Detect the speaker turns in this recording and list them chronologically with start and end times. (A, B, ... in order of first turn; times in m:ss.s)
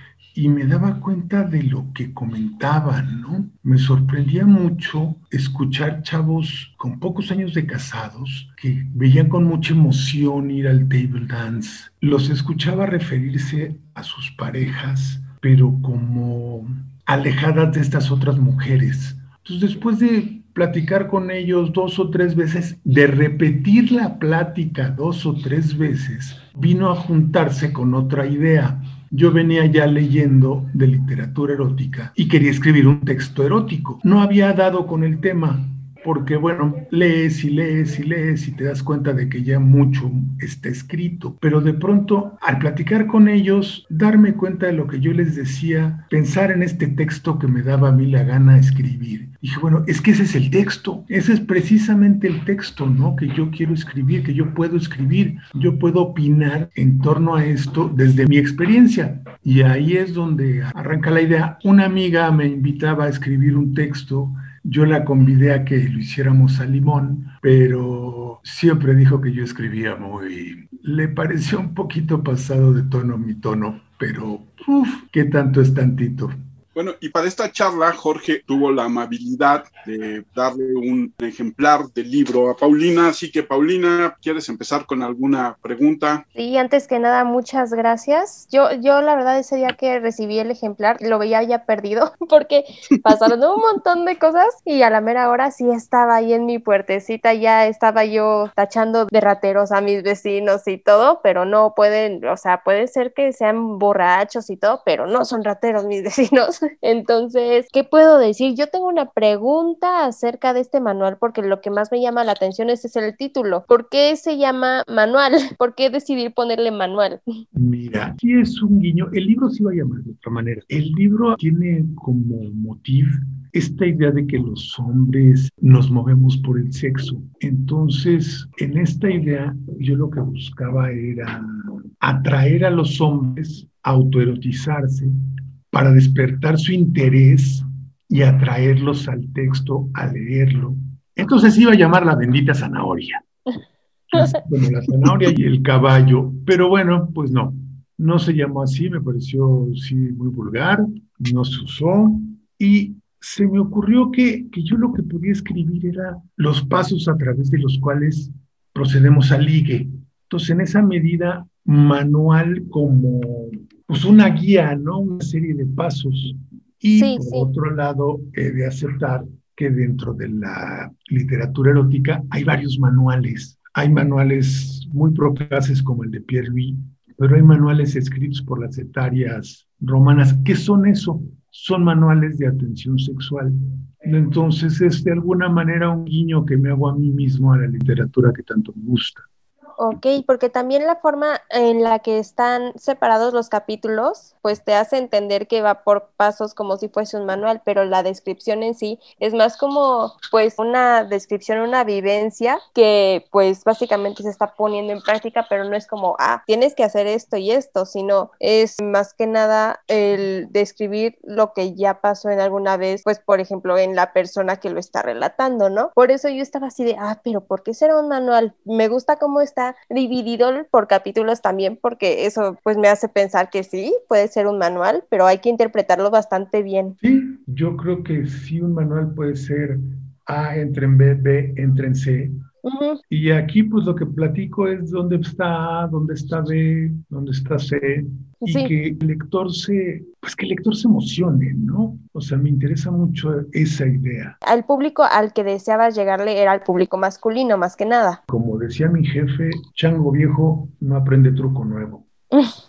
0:00.3-1:16.3 A
1:16.7-1:26.2 B
1:26.4-1:57.2 C
1:57.5-2:11.4 A
2:12.0-2:15.1 A
2:15.7-2:23.2 A
2:24.1-3:09.2 A
2:46.9-2:47.5 C
3:09.8-3:46.9 C
3:47.0-3:52.4 A
3:52.6-3:53.0 C
3:53.1-4:04.4 A
3:58.4-3:58.7 C
4:04.4-4:08.2 C
4:08.3-4:12.0 A